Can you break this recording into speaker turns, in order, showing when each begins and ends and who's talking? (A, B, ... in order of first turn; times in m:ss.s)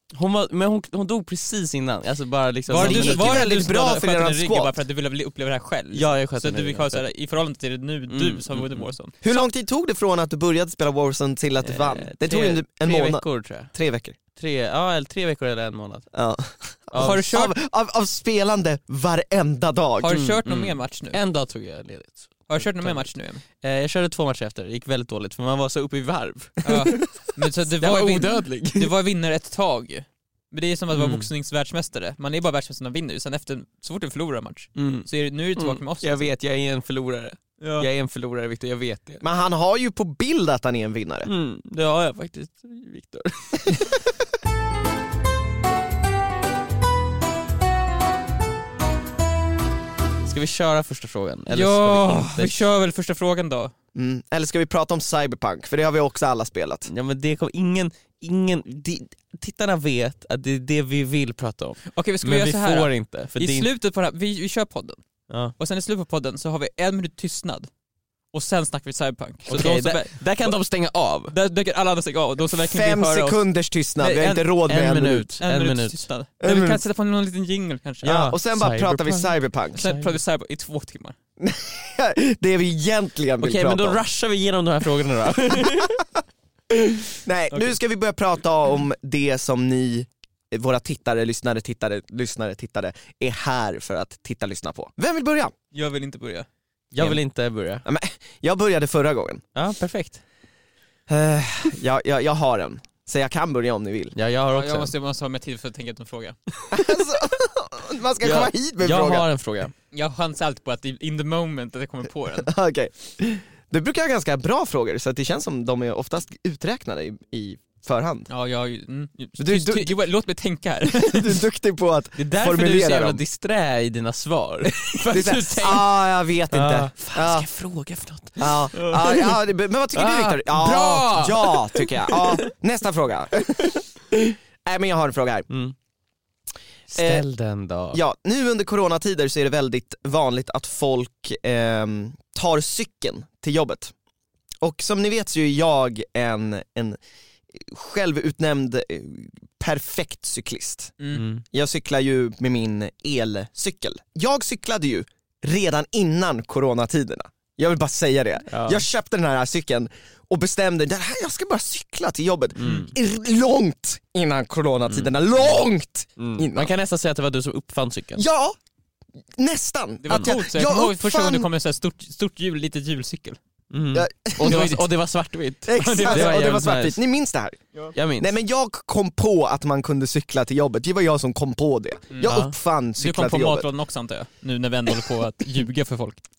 0:00.1-0:03.5 A
0:02.7-0:09.2 B
0:02.8-0:04.7 C
0:05.9-0:07.0 A
0:08.1-0:08.9 A
0:09.2-0:14.2 C
0:11.6-0:13.7 A
0:14.3-0:16.1 A
0:16.1-0:20.2 C
0:16.9-0:17.2 A
0:17.0-0:17.6 B
0:20.0-0:21.2 B
0:20.1-0:26.7 A
0:22.5-0:23.4 B
0:26.6-0:36.3 B
0:27.7-0:28.9 A
0:30.9-0:31.3 A
0:34.8-0:39.2 A
0:37.6-0:37.9 B
0:39.2-0:41.3 C
0:41.2-0:43.8 A
0:50.2-0:52.6 A
0:51.5-0:53.7 B
0:53.9-0:56.9 C
0:56.9-1:03.7 A
1:01.9-1:05.0 B
1:05.3-1:05.5 A
1:05.6-1:07.7 B
1:08.3-1:10.6 B
1:09.5-1:11.3 A
1:11.3-1:13.4 B
1:12.6-1:15.3 C
1:14.0-1:14.5 B
1:14.6-1:16.0 A
1:15.4-1:18.2 B
1:16.4-1:16.8 C
1:18.0-1:20.2 A
1:18.0-1:19.8 C
1:19.7-1:21.2 B
1:21.4-1:24.0 C
1:23.4-1:26.0 A
1:25.5-1:26.0 C
1:26.7-1:35.5 C
1:35.7-1:36.5 B
1:36.9-1:37.8 A
1:37.8-1:39.4 C
1:39.5-1:40.2 A
1:41.1-1:44.1 C
1:44.1-1:44.9 A
1:44.6-1:46.4 B
1:46.7-1:49.3 C
1:48.2-1:49.7 A
1:49.9-1:52.5 B
1:52.4-1:58.3 C
1:58.3-2:01.4 B
1:59.4-1:59.9 C
2:00.9-2:03.2 C
2:02.2-2:08.6 A
2:04.7-2:05.0 B
2:05.1-2:07.5 C
2:08.4-2:15.5 C
2:08.7-2:09.1 B
2:09.9-2:12.2 A
2:15.5-2:15.7 A
2:16.9-2:18.0 A
2:17.0-2:17.2 C
2:17.9-2:23.9 C
2:24.6-2:27.0 C
2:27.5-2:30.9 C
2:31.1-2:31.4 A
2:31.4-2:46.7 C
2:38.5-2:38.8 A
2:42.6-2:42.9 A
2:46.2-2:48.2 A
2:48.2-2:48.6 C
2:49.4-2:51.5 C
2:50.0-2:53.4 B
2:53.7-2:57.0 A
2:53.9-2:54.7 C
2:54.4-2:54.9 B
2:55.6-2:57.6 C
2:55.7-2:56.4 B
2:57.9-2:58.3 A
2:58.2-3:03.7 C
3:02.1-3:02.4 B
3:02.2-3:02.5 A
3:03.0-3:06.2 B